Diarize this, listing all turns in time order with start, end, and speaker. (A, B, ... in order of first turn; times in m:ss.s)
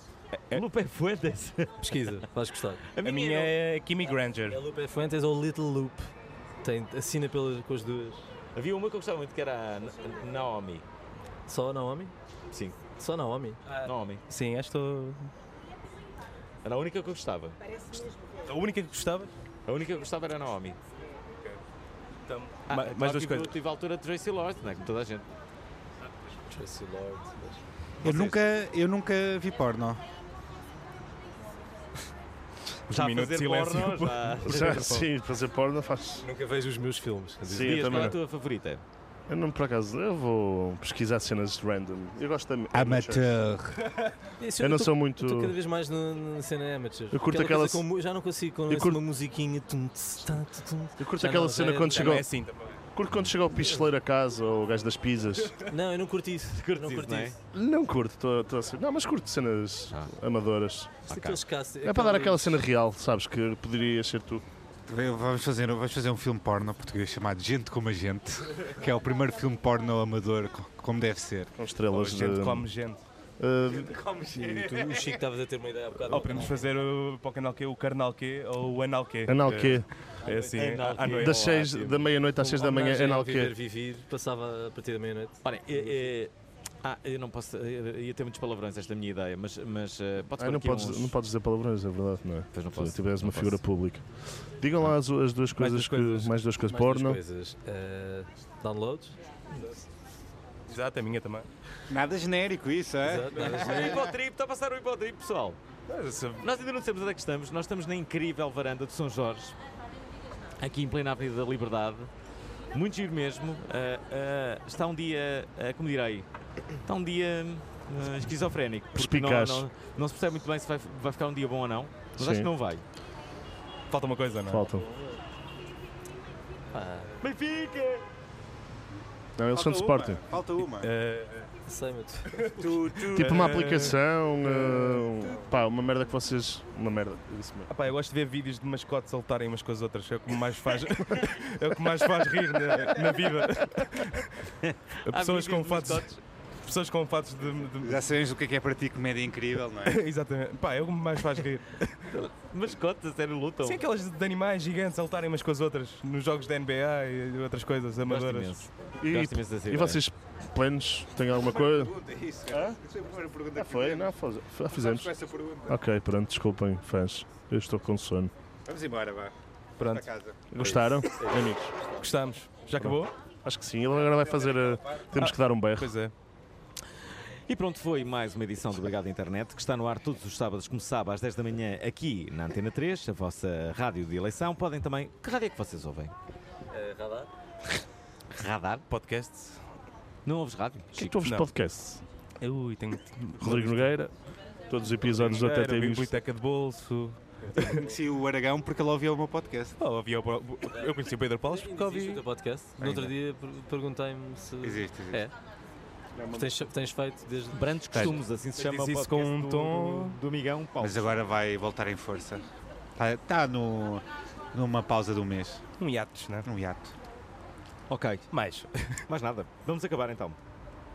0:00.3-0:00.6 A
0:00.5-0:02.0 B
0:01.8-0:02.9 C
0:02.9-0:03.5 B
0:03.0-0:04.6 A
0:04.5-0:06.1 C
0:06.6-0:08.3 C
0:08.6-0:10.8 B
0:11.5-0:12.1 C
0:12.5-0:12.8 B
0:13.0-0:13.6 C
0:13.7-0:15.3 A
0:13.8-0:14.2 B
0:16.6-0:17.7 B
0:18.4-0:19.3 A
0:19.7-0:20.8 B
0:22.3-0:23.5 A
0:22.7-0:25.3 B
0:26.5-0:27.6 C
0:28.0-0:28.4 A
0:28.0-0:30.0 D
0:32.9-0:35.0 B
0:32.9-0:35.1 A
0:34.4-0:36.3 E
0:36.2-0:38.2 C
0:37.5-0:38.2 E
0:37.5-0:38.8 B
0:39.3-0:43.4 E
0:42.7-0:43.9 D
0:44.4-0:52.2 C
0:44.6-0:45.5 E
0:47.1-0:47.8 E
0:48.7-0:49.0 E
0:51.0-0:52.3 E
0:52.0-0:52.8 A
0:52.9-0:55.6 E
0:53.6-0:53.9 C
0:55.6-0:57.4 C
0:56.5-0:57.4 B
0:57.5-1:01.0 E
1:01.1-1:02.6 C
1:01.1-1:01.4 B
1:01.8-1:04.4 E
1:04.9-1:11.5 D
1:11.6-1:12.7 E
1:11.9-1:13.0 A
1:13.4-1:13.9 E
1:13.7-1:15.2 D
1:14.3-1:16.7 C
1:16.1-1:21.6 A
1:19.3-1:19.9 E
1:20.5-1:22.1 B
1:21.1-1:23.5 E
1:22.4-1:26.1 C
1:25.4-1:31.2 B
1:30.4-1:37.2 E
1:32.5-1:33.6 B
1:35.6-1:36.3 A
1:36.7-1:39.2 C
1:40.7-1:41.5 A
1:41.9-1:44.0 D
1:43.0-1:44.1 C
1:43.4-1:45.6 B
1:45.9-1:46.4 A
1:46.4-1:49.6 B
1:50.6-1:52.1 B
1:52.7-1:56.3 B
1:56.8-2:02.8 B
1:59.0-1:59.7 E
2:02.2-2:02.5 E
2:03.9-2:04.7 A
2:04.5-2:04.9 E
2:06.7-2:07.1 C
2:07.2-2:08.0 B
2:09.4-2:10.2 E
2:09.5-2:10.9 D
2:10.8-2:11.5 A
2:11.7-2:13.0 C
2:12.6-2:13.9 D
2:13.1-2:15.0 A
2:13.1-2:17.7 E
2:17.7-2:24.5 A
2:24.6-2:26.2 B
2:25.0-2:26.1 A
2:26.6-2:28.1 A
2:27.8-2:30.0 D
2:29.8-2:32.2 A
2:32.1-2:33.8 B
2:33.6-2:38.6 A
2:38.1-2:40.0 B
2:39.0-2:41.9 E
2:41.3-2:44.2 D
2:42.5-2:42.8 E
2:43.6-2:45.1 E
2:44.7-2:45.8 D
2:45.7-2:48.3 E
2:48.7-2:50.4 D
2:49.8-2:50.1 A
2:50.5-2:51.8 E
2:50.6-2:51.0 A
2:51.1-2:52.1 C
2:52.0-2:53.1 A
2:52.8-2:55.9 E
2:55.2-2:56.1 A
2:57.5-3:06.1 B
3:06.7-3:07.3 C
3:08.3-3:08.8 B
3:08.9-3:09.7 A
3:10.2-3:11.2 B
3:10.9-3:12.0 E
3:11.2-3:11.5 A
3:12.4-3:13.9 A
3:13.4-3:14.1 E
3:14.7-3:16.1 E
3:15.0-3:17.8 A
3:17.6-3:19.8 D
3:17.6-3:17.9 C
3:19.8-3:22.2 A
3:21.5-3:25.3 C
3:22.8-3:23.1 D
3:24.6-3:25.2 D
3:26.2-3:26.6 E
3:26.3-3:27.8 C
3:27.5-3:31.2 B
3:27.9-3:30.2 A
3:30.8-3:32.5 D
3:33.0-3:35.6 D
3:35.8-3:36.5 A
3:36.5-3:36.9 D
3:37.9-3:38.3 B
3:38.3-3:39.0 A
3:39.1-3:40.4 B